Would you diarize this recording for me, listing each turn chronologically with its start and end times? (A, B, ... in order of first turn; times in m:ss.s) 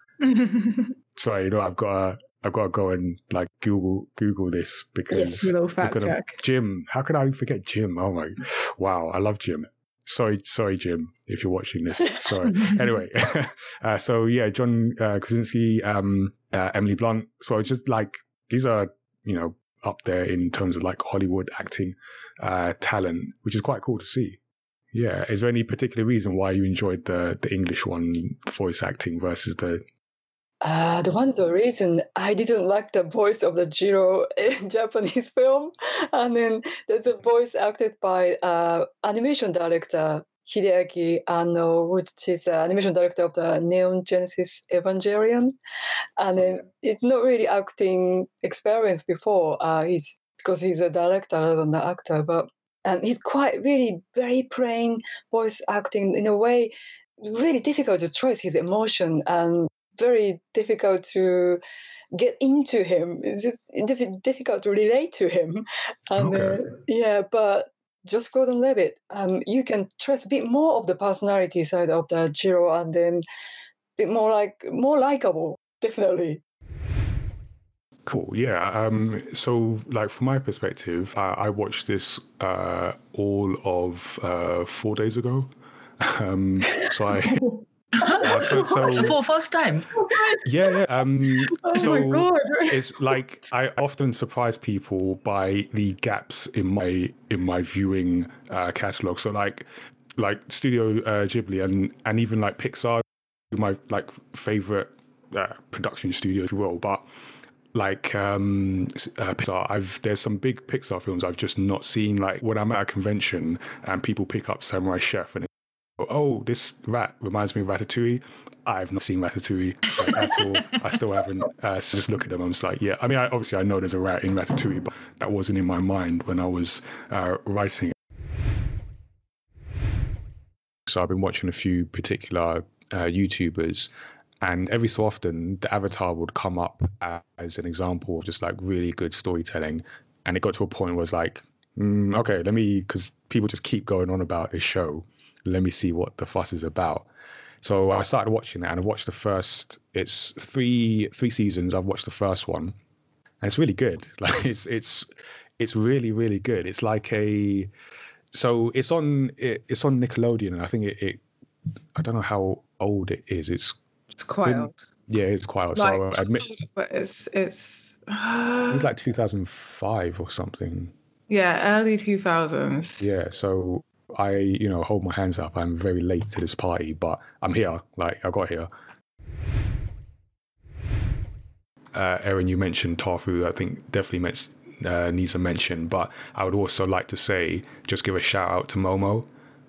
0:00.2-0:00.9 A
0:01.2-0:24.4 B
0:05.1-0:06.4 A
0:24.9-0:29.8 B
0:30.6-0:45.6 C
0:46.2-1:01.6 C
1:02.1-1:13.2 C
1:06.2-1:06.6 B
1:14.0-1:16.4 C
1:18.0-1:25.5 B
1:26.0-1:27.4 B
1:28.2-1:29.2 B
1:30.4-1:47.1 B
1:31.6-1:32.8 A
1:47.7-1:55.5 B
1:56.0-2:07.9 B
2:10.9-2:13.9 B
2:14.4-2:27.1 B
2:27.6-2:32.8 B
2:33.4-2:35.1 B
2:35.6-2:37.7 B
2:38.3-2:41.2 B
2:42.0-2:43.8 B
2:44.2-2:44.8 A
2:44.4-2:46.5 B
2:45.7-2:48.8 A
2:48.7-2:50.9 B
2:51.3-2:53.1 A
2:53.0-2:58.7 B
3:01.9-3:09.3 B